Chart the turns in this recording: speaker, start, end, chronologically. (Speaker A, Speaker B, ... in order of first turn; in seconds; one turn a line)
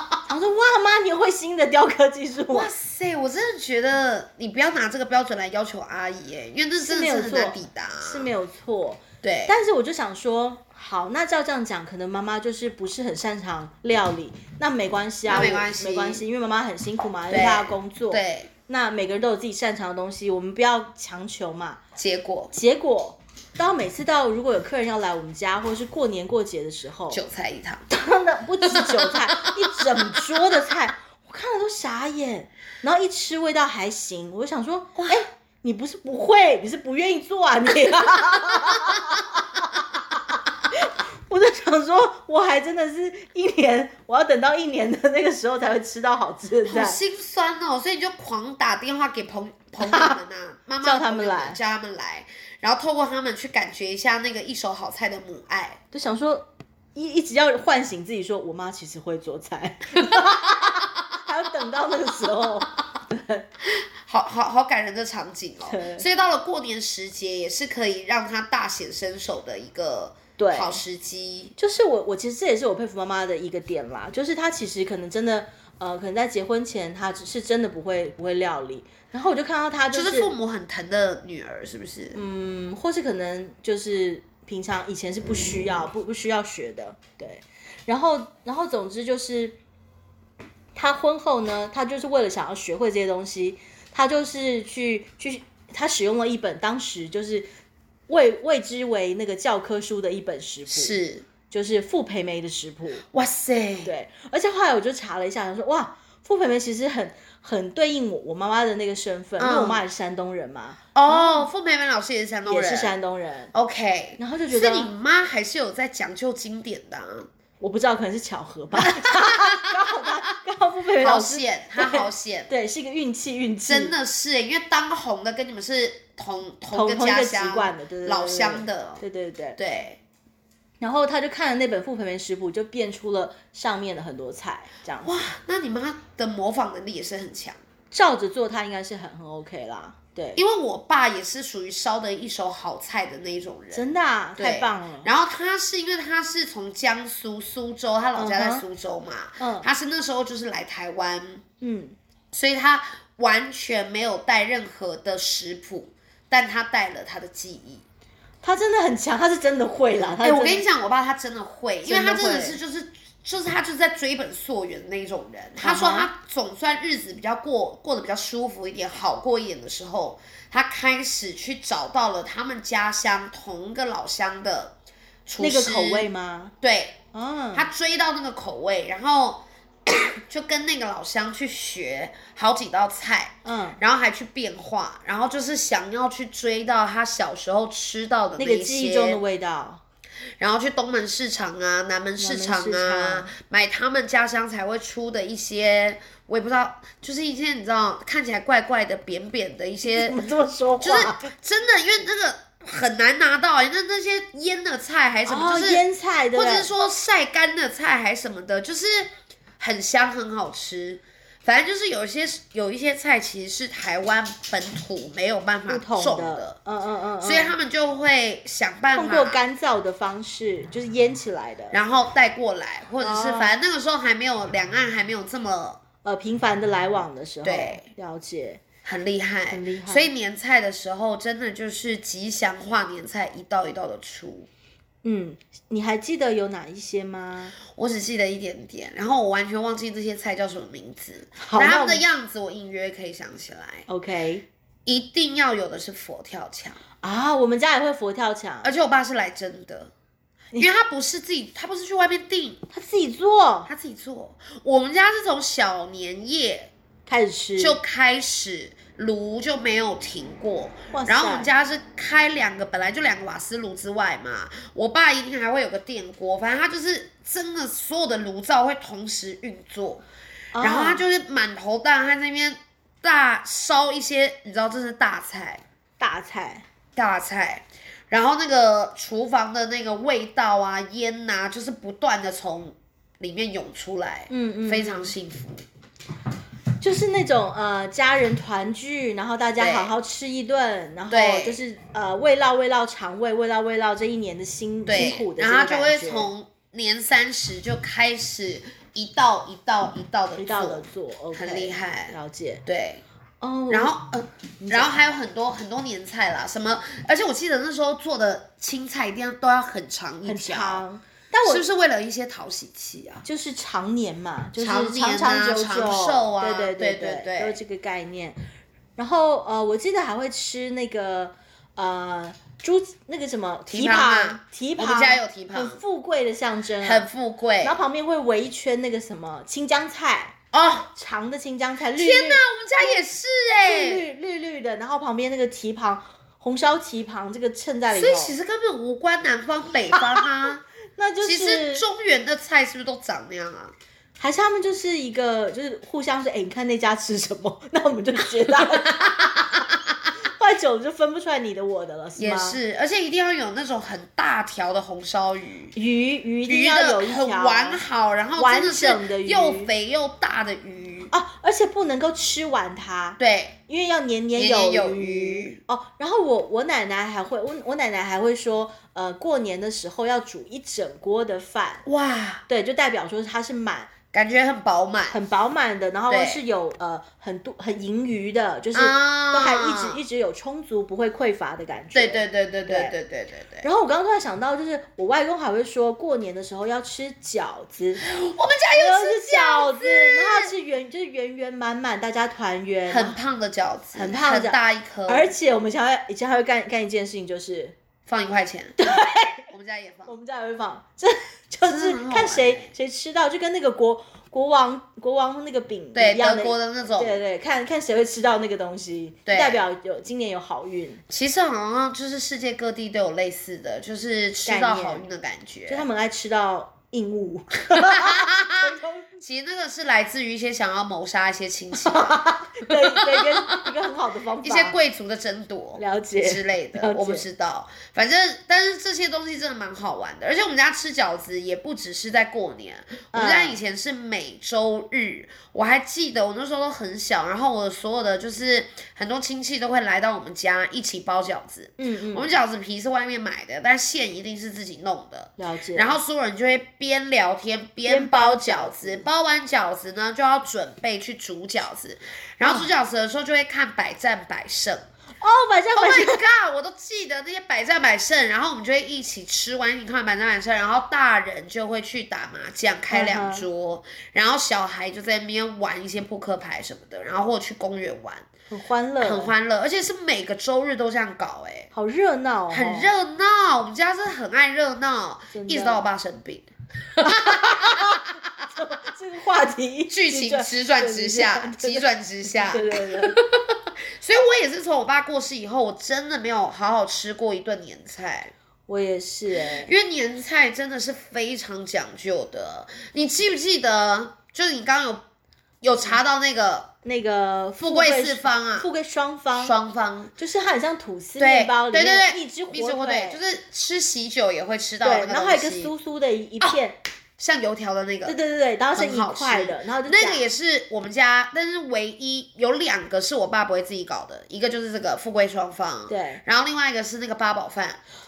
Speaker A: 0.3-2.7
Speaker B: 2.5-8.3
Speaker A: 6.8-21.8
Speaker B: 9.2-9.5
Speaker B: 15.3-16.2
Speaker B: 17.3-18.5
Speaker B: 21.9-22.5
Speaker A: 22.5-27.2
Speaker B: 27.1-27.9
Speaker A: 27.9-47.0
Speaker B: 28.6-30.2
Speaker B: 35.0-35.2
Speaker B: 46.6-55.8
Speaker A: 49.8-50.2
Speaker A: 50.8-51.6
Speaker A: 55.9-63.5
Speaker B: 60.1-60.8
Speaker B: 63.6-71.5
Speaker A: 65.7-66.0
Speaker A: 70.4-70.8
Speaker A: 71.6-80.3
Speaker B: 79.9-82.2
Speaker A: 82.1-89.6
Speaker A: 90.7-97.5
Speaker A: 98.1-101.0
Speaker B: 100.7-101.3
Speaker A: 101.5-103.0
Speaker B: 103.1-103.9
Speaker A: 103.8-111.5
Speaker B: 109.4-109.8
Speaker B: 110.9-112.9
Speaker A: 112.5-113.5
Speaker B: 113.5-117.3
Speaker A: 114.2-114.9
Speaker A: 117.6-123.9
Speaker B: 118.7-120.1
Speaker B: 121.0-122.5
Speaker B: 123.7-129.0
Speaker A: 126.7-129.6
Speaker B: 129.6-130.0
Speaker A: 130.8-135.1
Speaker B: 135.0-137.6
Speaker A: 137.9-140.4
Speaker B: 140.4-151.4
Speaker A: 143.7-145.1
Speaker A: 148.2-148.6
Speaker A: 149.4-149.7
Speaker A: 151.6-151.9
Speaker B: 152.3-157.8
Speaker A: 158.4-160.6
Speaker B: 160.2-174.7
Speaker A: 161.8-162.6
Speaker A: 165.6-166.1
Speaker B: 175.2-176.1
Speaker A: 175.4-176.5
Speaker B: 176.6-177.0
Speaker A: 177.1-177.7
Speaker B: 177.5-189.2
Speaker A: 183.4-183.8
Speaker A: 188.4-189.8
Speaker B: 190.4-200.2
Speaker A: 192.2-193.3
Speaker A: 199.9-201.3
Speaker B: 200.8-205.8
Speaker A: 205.2-206.7
Speaker B: 206.3-216.6
Speaker A: 215.7-217.5
Speaker B: 217.2-219.4
Speaker A: 218.9-221.8
Speaker B: 221.7-225.8
Speaker A: 223.0-223.5
Speaker A: 226.0-228.6
Speaker B: 227.4-227.8
Speaker B: 228.8-234.5
Speaker A: 229.5-230.1
Speaker A: 235.0-237.6
Speaker B: 237.7-243.8
Speaker A: 241.4-242.0
Speaker A: 243.9-244.4
Speaker B: 244.8-246.8
Speaker A: 247.0-248.7
Speaker B: 248.6-249.9
Speaker B: 250.6-252.6
Speaker A: 252.7-253.7
Speaker B: 253.7-256.7
Speaker A: 257.1-257.8
Speaker B: 257.6-270.0
Speaker A: 260.9-261.5
Speaker A: 270.5-271.0
Speaker B: 270.6-275.6
Speaker A: 276.0-276.6
Speaker B: 276.9-285.6
Speaker A: 284.3-285.1
Speaker A: 286.8-296.3
Speaker B: 289.6-289.9
Speaker B: 291.1-291.6
Speaker B: 294.9-303.0
Speaker A: 300.4-302.6
Speaker A: 303.4-303.9
Speaker B: 303.7-310.8
Speaker A: 304.6-305.1
Speaker A: 310.2-311.6
Speaker B: 311.4-313.2
Speaker A: 313.2-318.4
Speaker B: 314.6-317.6
Speaker A: 318.9-327.1
Speaker B: 323.7-325.8
Speaker B: 326.8-327.8
Speaker A: 327.6-330.4
Speaker B: 330.5-330.9
Speaker A: 330.9-332.9
Speaker B: 331.9-334.0
Speaker A: 333.6-338.3
Speaker B: 337.9-340.6
Speaker A: 340.9-341.8
Speaker B: 341.2-343.7
Speaker A: 344.2-349.3
Speaker B: 348.5-349.7
Speaker A: 350.2-352.6
Speaker B: 352.2-355.7
Speaker A: 355.7-357.8
Speaker B: 356.4-361.1
Speaker A: 358.4-359.7
Speaker A: 361.1-371.8
Speaker B: 363.2-363.6
Speaker B: 364.4-365.6
Speaker B: 371.8-372.4
Speaker A: 372.5-373.9
Speaker B: 374.1-375.2
Speaker A: 375.1-382.9
Speaker B: 376.1-376.4
Speaker B: 378.7-380.0
Speaker B: 381.9-383.7
Speaker A: 383.6-388.0
Speaker B: 388.0-390.5
Speaker A: 388.7-393.2
Speaker B: 392.9-395.3
Speaker A: 393.9-397.7
Speaker B: 398.1-399.0
Speaker A: 398.8-399.5
Speaker B: 399.5-400.1
Speaker A: 400.1-411.0
Speaker B: 401.6-402.7
Speaker B: 405.9-407.2
Speaker B: 409.2-409.6
Speaker B: 411.1-415.8
Speaker A: 414.4-415.0
Speaker A: 415.7-419.2
Speaker B: 417.7-418.6
Speaker B: 419.2-423.7
Speaker A: 421.7-424.8
Speaker B: 424.4-454.9
Speaker A: 425.8-427.2
Speaker A: 433.1-433.6
Speaker A: 441.8-442.3
Speaker A: 445.4-446.0
Speaker A: 447.8-449.1
Speaker A: 452.4-452.7
Speaker A: 455.2-456.2
Speaker B: 455.7-468.3
Speaker A: 462.9-463.5
Speaker A: 468.5-469.3
Speaker B: 469.0-471.7
Speaker A: 471.7-472.9
Speaker B: 472.5-478.3
Speaker A: 475.3-475.8
Speaker A: 477.0-483.2
Speaker B: 479.9-488.3
Speaker A: 488.7-489.7
Speaker B: 489.4-495.0
Speaker B: 495.6-496.7
Speaker A: 496.8-499.5
Speaker B: 497.6-498.7
Speaker B: 499.4-500.1
Speaker A: 500.2-503.2
Speaker B: 501.2-505.7
Speaker A: 504.8-506.8
Speaker B: 507.2-508.2
Speaker A: 508.1-510.2
Speaker B: 508.7-517.8
Speaker A: 515.9-516.2